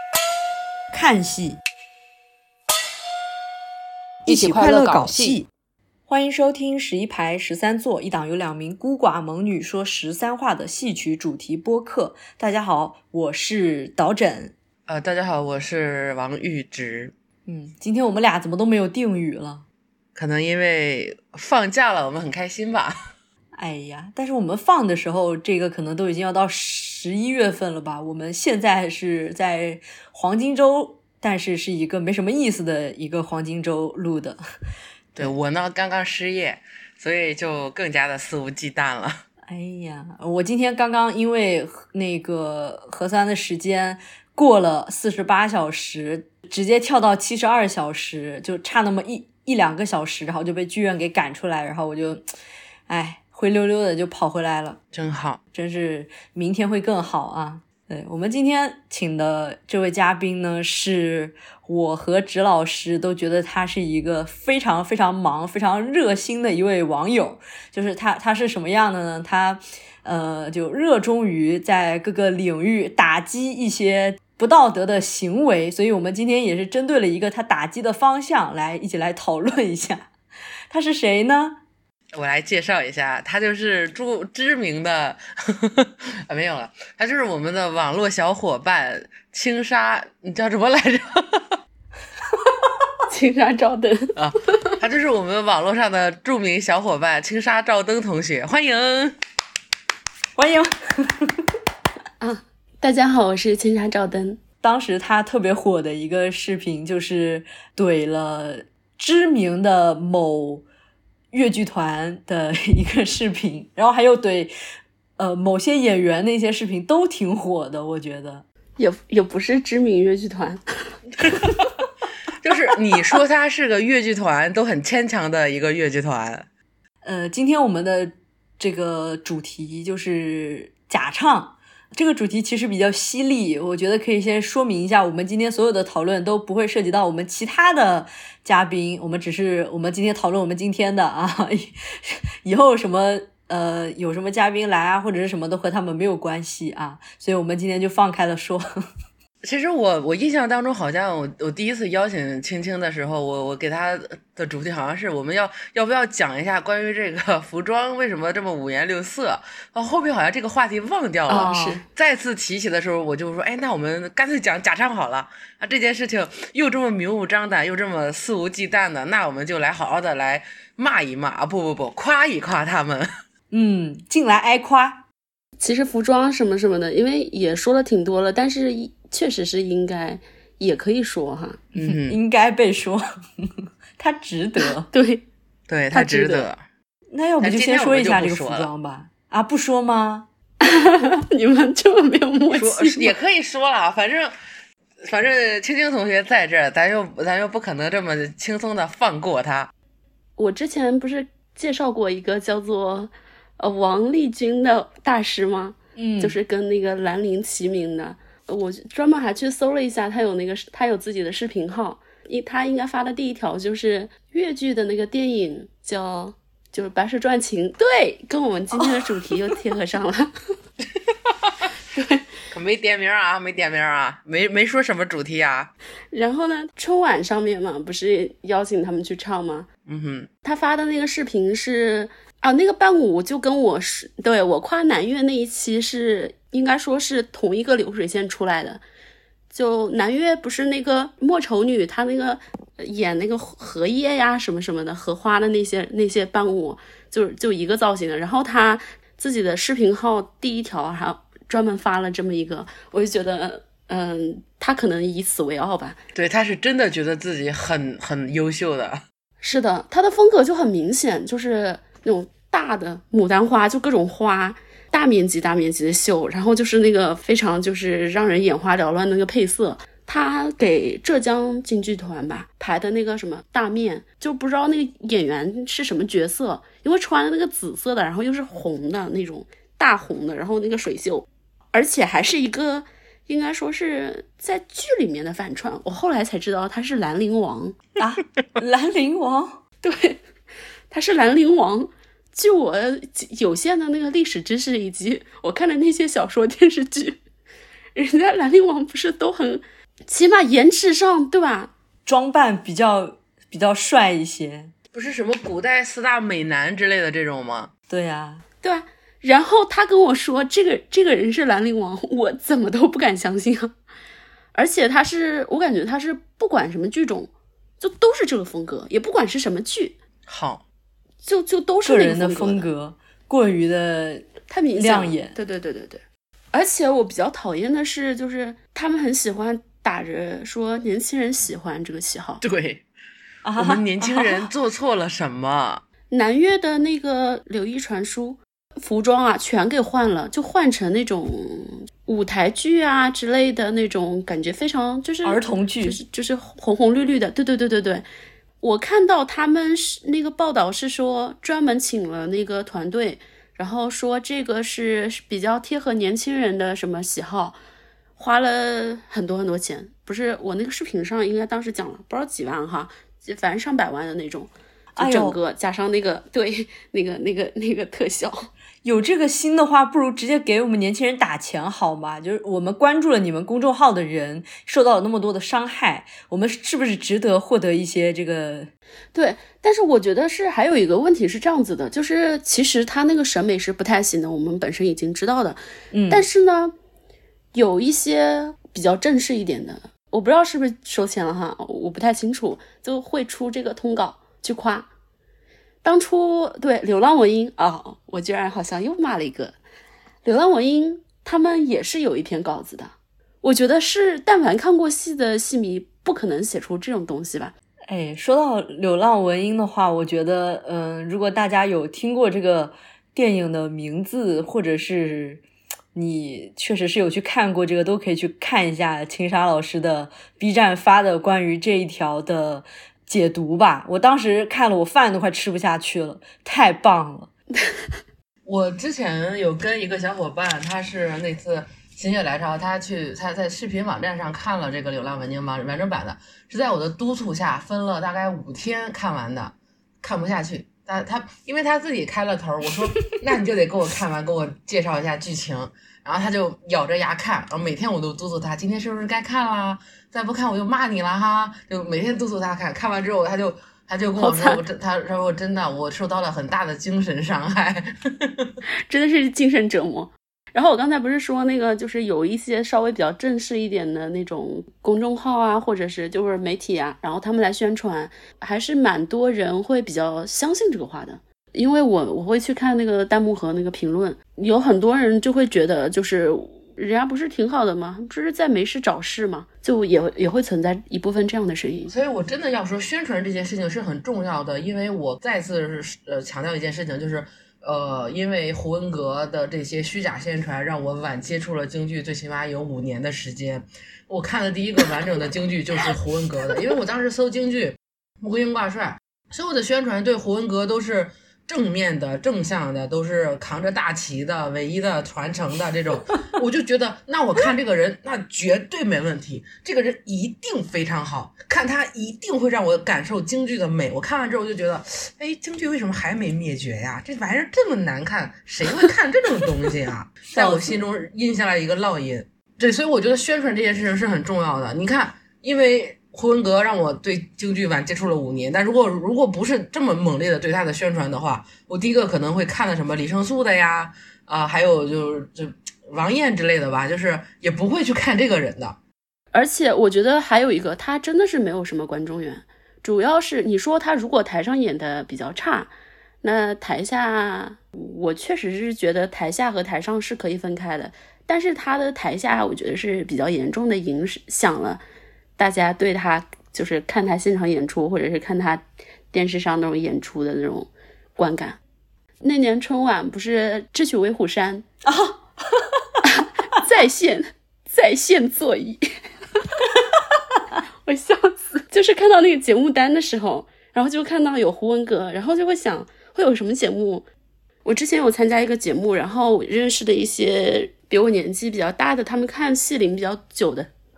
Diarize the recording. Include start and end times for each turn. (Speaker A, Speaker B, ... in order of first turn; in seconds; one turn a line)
Speaker A: 0.9-1.6
Speaker B: 4.3-5.4
Speaker A: 4.3-5.5
Speaker A: 6.1-14.5
Speaker B: 14.9-17.1
Speaker A: 17.5-19.6
Speaker B: 20.2-23.0
Speaker A: 23.5-34.4
Speaker B: 35.2-39.2
Speaker A: 39.5-52.3
Speaker A: 52.9-54.8
Speaker B: 54.9-55.4
Speaker A: 55.5-80.1
Speaker A: 80.7-81.6
Speaker B: 82.1-91.5
Speaker C: 93.1-94.7
Speaker B: 94.2-99.2
Speaker A: 100.4-101.5
Speaker C: 102.2-104.4
Speaker A: 104.6-110.7
Speaker A: 111.3-114.5
Speaker A: 115.2-118.5
Speaker C: 118.8-120.9
Speaker B: 122.4-126.5
Speaker A: 127.0-148.7
Speaker B: 149.4-173.1
Speaker C: 161.3-161.8
Speaker A: 173.5-175.0
Speaker C: 175.6-181.7
Speaker B: 181.8-182.2
Speaker A: 182.0-184.9
Speaker C: 184.9-185.2
Speaker B: 185.7-186.6
Speaker C: 185.9-186.5
Speaker A: 187.1-190.3
Speaker B: 187.4-188.7
Speaker C: 190.6-193.1
Speaker B: 192.5-194.3
Speaker B: 195.0-199.7
Speaker C: 200.4-220.3
Speaker A: 206.0-206.4
Speaker C: 221.9-222.2
Speaker B: 222.5-225.7
Speaker C: 226.1-229.7
Speaker B: 229.9-230.3
Speaker C: 230.4-238.8
Speaker C: 239.5-256.0
Speaker B: 256.1-259.0
Speaker C: 259.4-287.8
Speaker A: 288.0-289.6
Speaker C: 289.8-290.2
Speaker C: 290.9-297.2
Speaker C: 297.9-301.7
Speaker A: 302.1-304.7
Speaker B: 304.9-307.7
Speaker A: 307.9-308.4
Speaker C: 308.6-313.7
Speaker C: 314.5-320.0
Speaker B: 320.3-320.6
Speaker C: 321.2-322.7
Speaker A: 321.8-325.4
Speaker C: 324.5-332.4
Speaker B: 332.4-332.8
Speaker A: 333.4-334.5
Speaker B: 333.6-335.8
Speaker C: 336.1-348.1
Speaker A: 345.2-346.0
Speaker C: 348.6-357.6
Speaker C: 358.2-368.5
Speaker A: 365.0-365.4
Speaker A: 368.8-378.7
Speaker C: 379.1-386.7
Speaker A: 385.9-386.2
Speaker C: 387.5-394.9
Speaker C: 395.8-399.6
Speaker C: 400.2-407.5
Speaker A: 407.9-415.4
Speaker A: 415.9-427.3
Speaker B: 428.4-458.5
Speaker C: 454.2-454.6
Speaker C: 458.9-481.9
Speaker B: 481.9-538.8
Speaker A: 520.3-520.8
Speaker C: 539.3-545.7
Speaker C: 546.2-554.8
Speaker C: 555.4-561.6
Speaker C: 562.2-564.7
Speaker A: 564.9-565.8
Speaker C: 566.1-569.0
Speaker C: 570.9-577.1
Speaker C: 577.6-583.7